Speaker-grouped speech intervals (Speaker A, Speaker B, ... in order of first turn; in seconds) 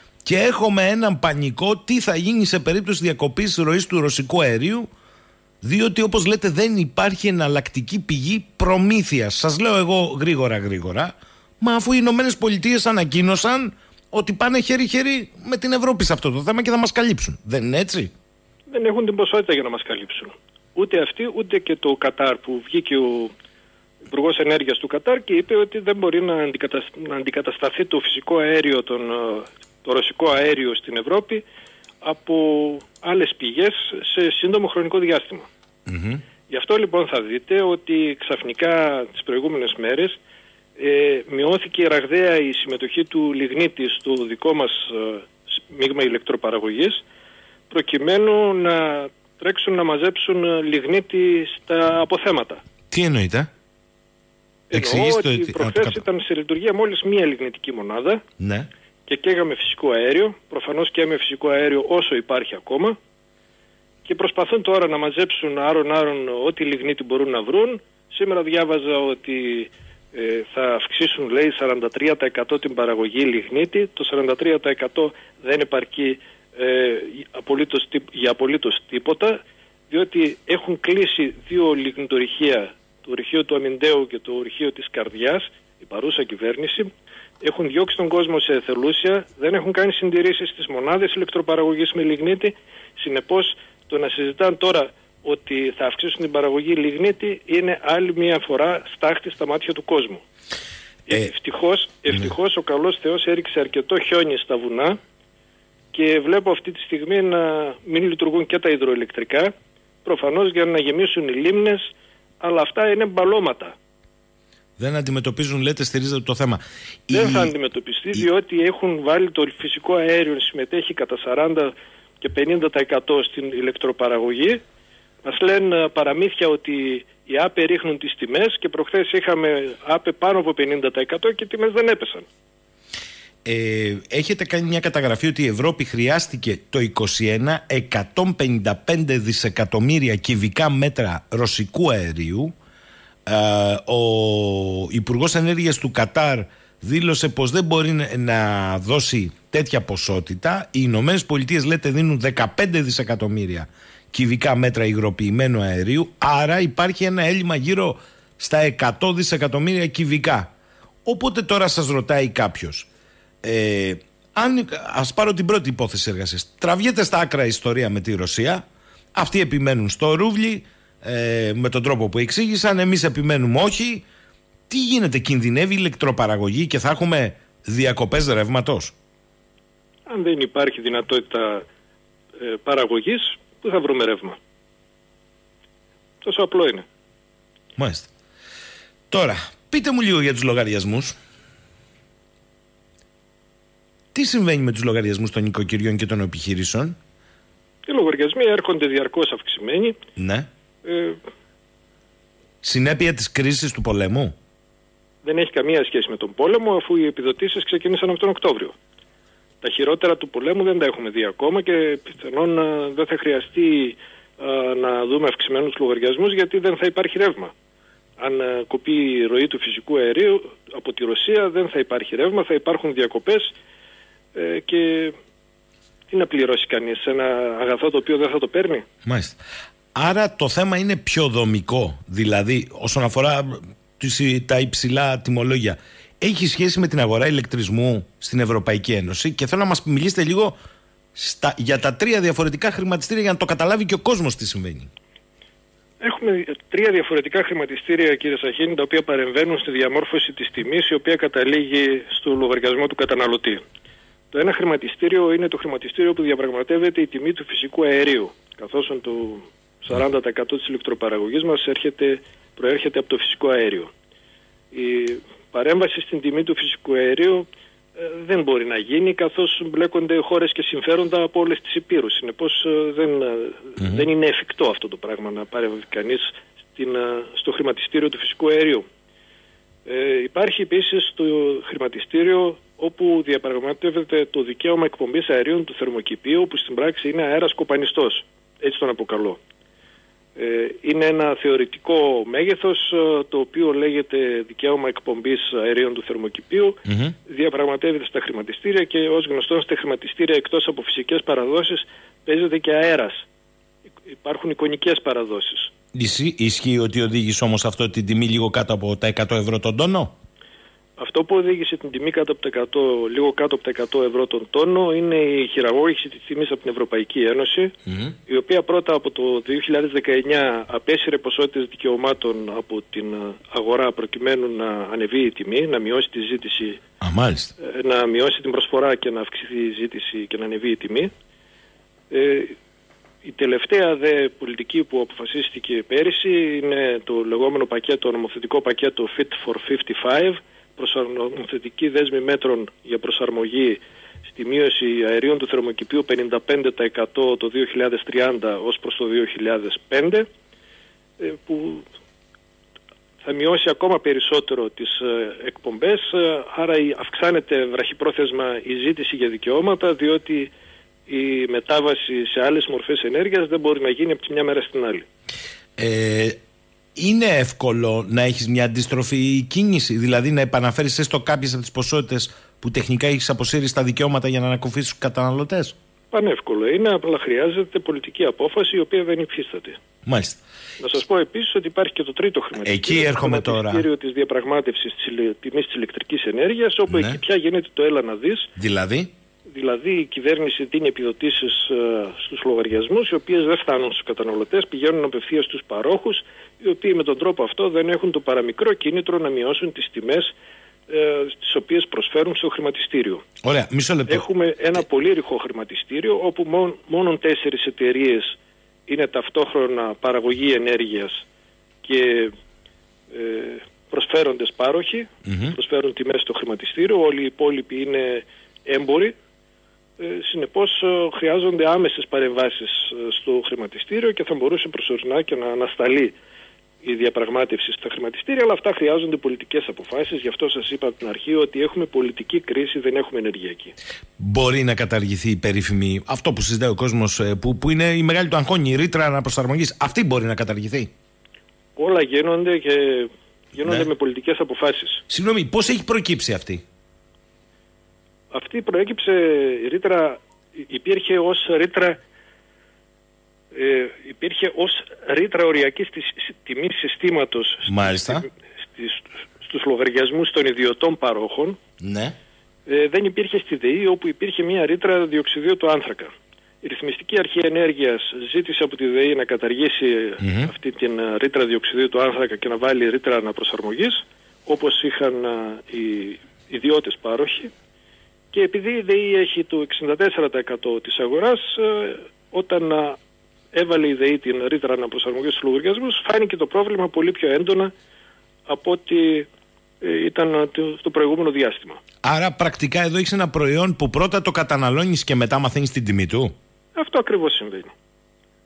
Speaker A: 0.2-4.9, 5.6-18.1, 35.9-36.2, 52.9-53.5, 54.7-56.0, 58.4-58.7, 114.8-117.5, 133.4-142.5, 143.3-160.5, 161.0-162.9, 163.4-168.6, 169.1-174.0, 174.7-178.9, 187.8-188.1, 189.1-191.2, 194.1-196.9, 200.2-200.5, 202.6-204.3, 229.0-229.4, 229.9-240.6, 241.1-244.9, 273.8-274.0, 296.9-297.1, 305.9-310.1, 317.9-318.1, 327.0-327.5, 365.8-366.4, 366.9-375.8, 380.0-380.4, 382.6-383.8, 386.9-387.2, 388.6-389.1, 403.4-404.3, 415.2-415.5, 434.2-440.9, 443.6-443.9, 445.1-446.6, 457.6-458.3, 461.8-462.1, 470.2-470.5, 492.0-496.3
Speaker B: 18.7-23.3, 24.1-31.4, 32.0-35.5, 36.5-40.2, 40.8-47.0, 47.7-52.6, 54.7-58.2, 59.0-63.0, 64.0-86.9, 87.4-100.2, 101.0-105.0, 105.9-109.5, 110.0-111.8, 112.4-113.7, 117.1-124.6, 125.2-132.2, 180.1-181.7, 182.4-184.4, 186.2-186.8, 197.8-200.0, 200.8-201.2, 205.2-208.8, 209.6-217.5, 218.2-223.5, 224.3-225.2, 226.1-228.8, 246.0-253.6, 254.3-263.9, 264.7-278.8, 279.8-289.4, 290.4-303.2, 304.1-305.7, 311.0-317.7, 318.3-326.8, 327.6-331.1, 332.1-332.6, 333.2-350.3, 351.2-351.9, 353.2-360.5, 361.1-365.1, 376.1-379.8, 380.8-388.5, 389.5-400.3, 400.9-403.2, 404.1-408.3, 408.9-411.2, 411.8-412.3, 413.1-419.1, 420.0-426.1, 426.8-433.7, 441.8-445.0, 448.3-452.0, 453.5-461.6, 462.6-477.5, 478.3-483.0, 483.5-487.7, 488.5-489.3, 489.8-491.8, 496.7-497.7